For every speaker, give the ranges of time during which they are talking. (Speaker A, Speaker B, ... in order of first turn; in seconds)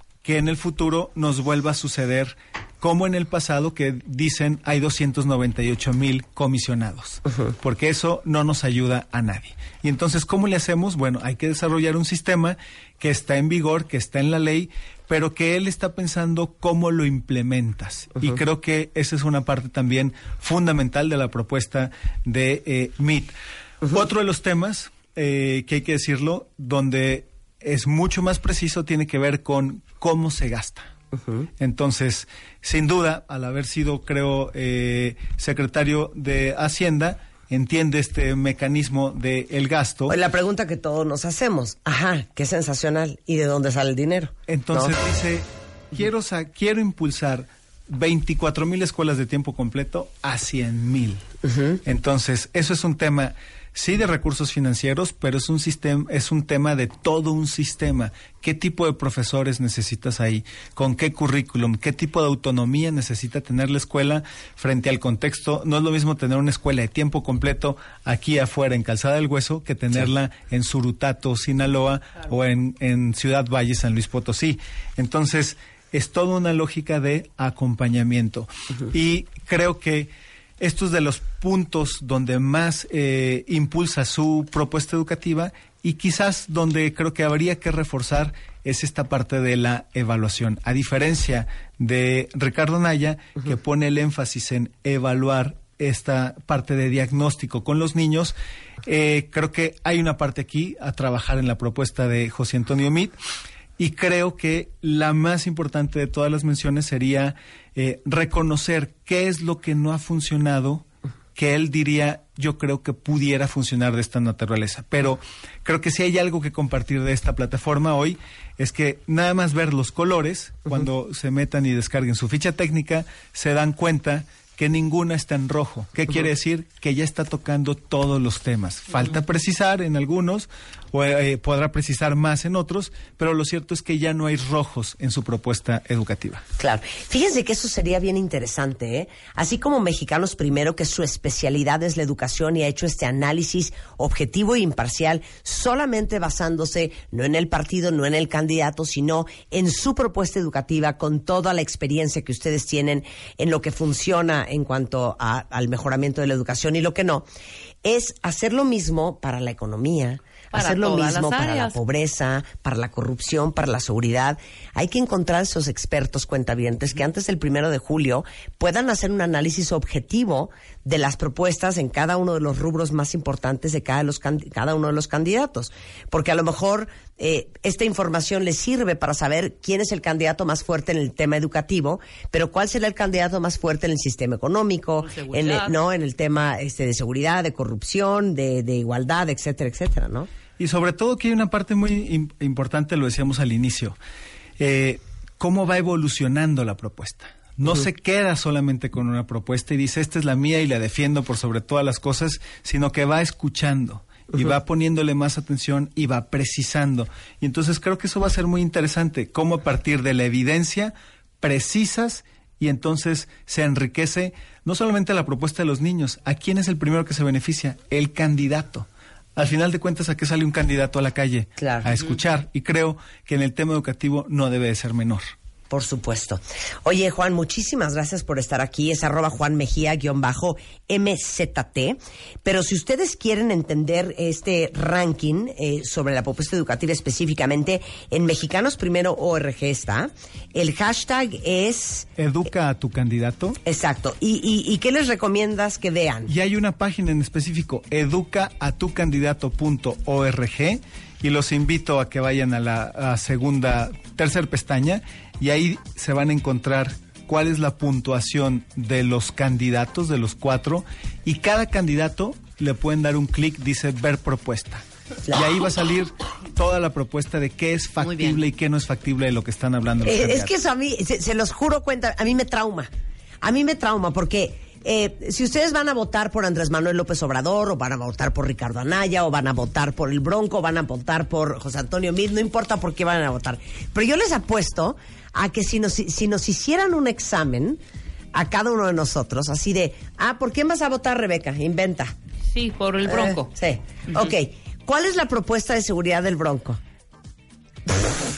Speaker A: 0.2-30.9, 31.6-40.1, 44.5-51.2, 51.8-103.1, 103.8-136.4, 190.6-194.0, 194.6-225.2, 242.2-243.6, 246.3-270.5
Speaker B: 40.1-44.9, 51.5-51.8, 136.6-157.2, 157.8-190.3, 221.6-221.9, 225.7-242.1, 243.6-246.3, 270.0-272.9, 273.4-287.8, 288.3-292.1, 293.0-296.8
Speaker C: 160.5-161.8, 185.0-185.8, 268.0-268.4, 292.5-293.5